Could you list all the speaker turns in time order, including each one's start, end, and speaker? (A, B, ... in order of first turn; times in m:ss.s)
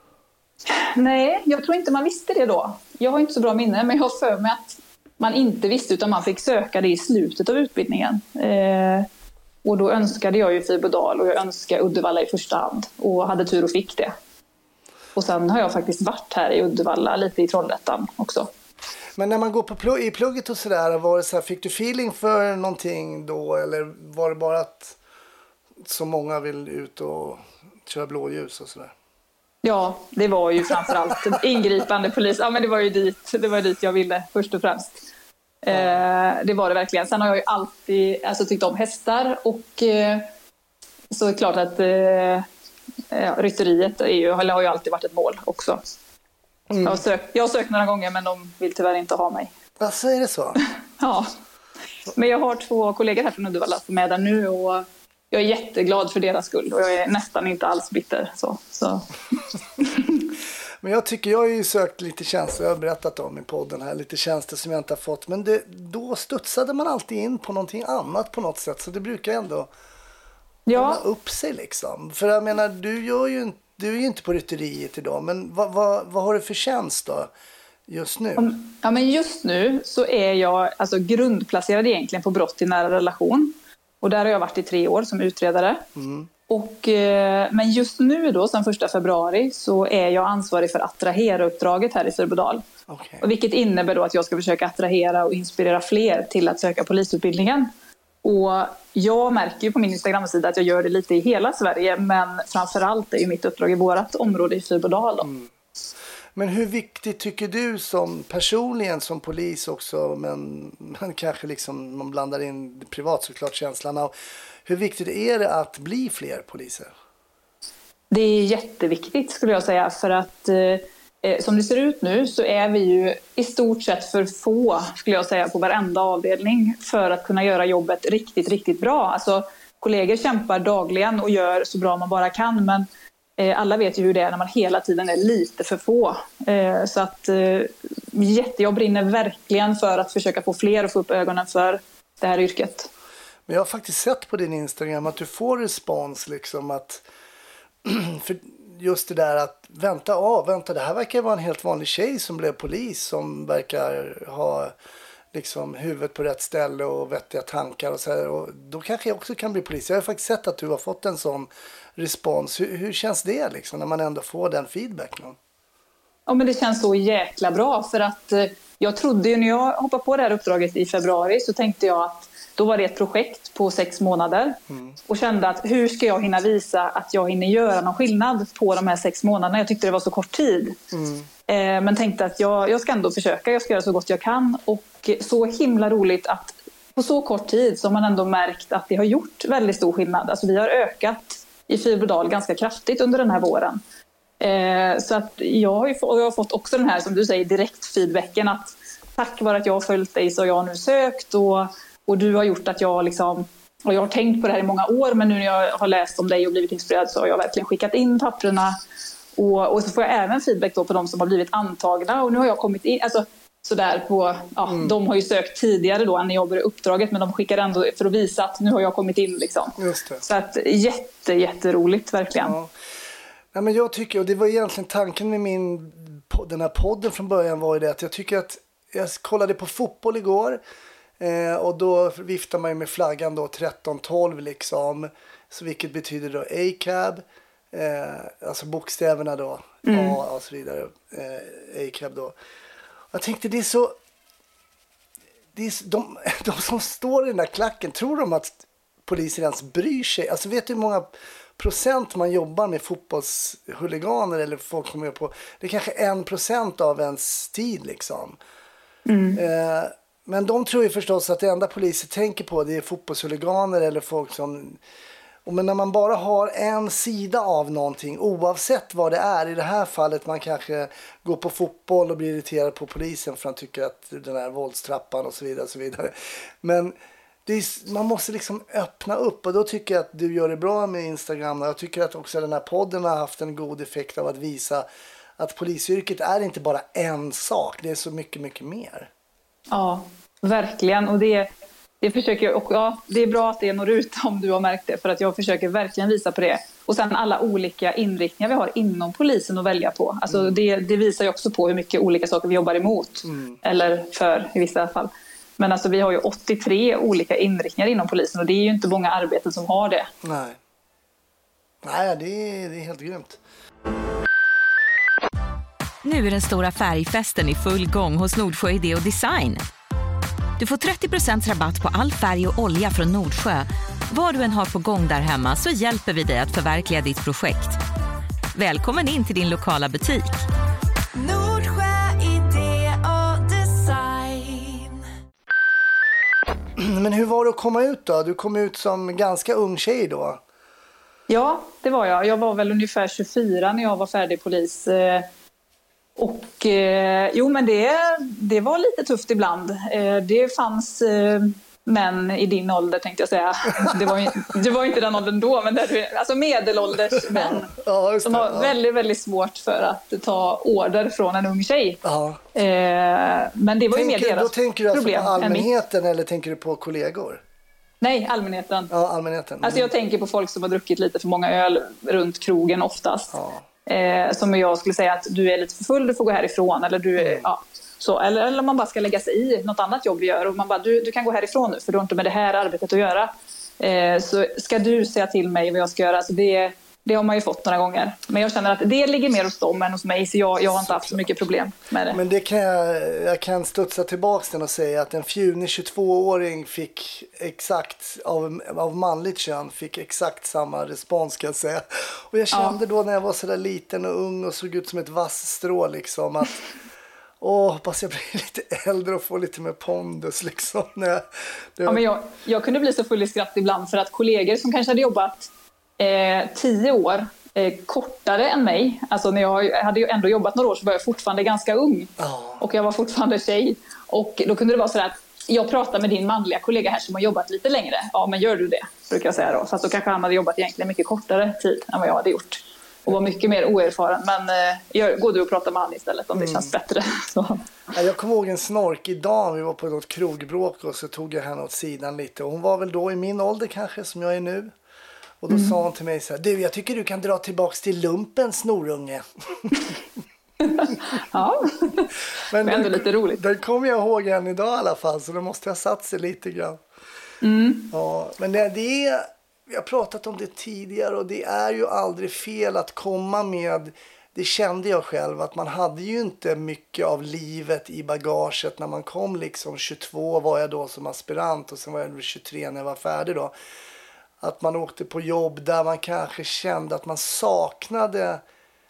0:00.7-0:09.1 A
0:09.6-0:14.1 A
0:15.1-0:18.5 A
0:19.2-0:25.0 B
0:25.8-0:28.9 B
0:29.6-0:35.0 A
0:35.6-0:40.2 A
0:35.7-0:36.0 B
0:41.1-0:42.4 A
0:43.1-0:45.8 A
0:46.7-0:47.0 B
0:46.8-0:49.5 A
0:49.8-0:50.6 B
0:51.0-0:51.3 A
0:52.1-0:59.1 A
0:59.8-1:00.1 A
1:00.8-1:09.7 B
1:10.7-1:11.0 A
1:10.7-1:17.3 B
1:17.9-1:18.5 B
1:18.4-1:25.8 A
1:25.9-1:26.3 B
1:26.5-1:32.6 A
1:32.9-1:33.2 B
1:33.2-1:37.7 A
1:38.2-1:45.3 A
1:45.2-1:45.5 B
1:46.3-1:54.1 B
1:54.6-1:56.9 B
1:58.1-2:12.8 A
2:13.4-2:22.9 A
2:23.5-2:27.0 B
2:27.8-2:34.7 B
2:35.3-2:45.4 B
2:46.3-3:00.8 A
3:00.9-3:01.3 B
3:01.5-3:13.8 A
3:14.4-3:28.8 A
3:29.4-3:42.5 A
3:34.7-3:34.9 B
3:39.8-3:40.2 B
3:42.4-3:42.7 B
3:43.5-3:50.6 B
3:51.2-4:02.4 B
3:59.8-4:00.2 A
4:03.1-4:04.0 B
4:05.5-4:18.4 B
4:19.0-4:19.4 A
4:19.4-4:24.8 B
4:25.4-4:36.9 B
4:37.4-4:44.8 B
4:45.4-4:49.1 B
4:49.7-5:10.1 A
5:00.3-5:00.6 B
5:03.2-5:03.6 B
5:10.2-5:10.6 B
5:11.8-5:13.4 B
5:16.0-5:19.6 C
5:20.6-5:27.8 C
5:28.5-5:30.4 C
5:31.1-5:35.0 C
5:36.8-5:40.4 B
5:41.3-5:45.3 A
5:46.2-5:57.7 A
5:53.8-5:54.4 B
5:57.1-5:58.7 B
5:58.2-6:02.0 A
6:02.0-6:02.4 B
6:02.5-6:05.7 A
6:03.9-6:07.4 B
6:08.0-6:08.9 A
6:08.9-6:09.9 B
6:09.6-6:32.2 A
6:13.3-6:13.6 B
6:17.2-6:17.5 B
6:30.7-6:31.4 B
6:32.1-6:46.6 B
6:42.5-6:42.8 A
6:47.4-6:52.0 B
6:51.8-7:17.6 A
7:02.2-7:02.6 B
7:09.3-7:09.6 B
7:16.3-7:16.7 B
7:17.9-7:24.7 B
7:25.4-7:29.9 B
7:25.5-7:25.8 A
7:30.6-7:32.1 A
7:32.5-7:36.8 B
7:32.6-7:33.4 A
7:37.4-7:37.9 A
7:37.9-7:53.5 B
7:54.4-7:58.4 B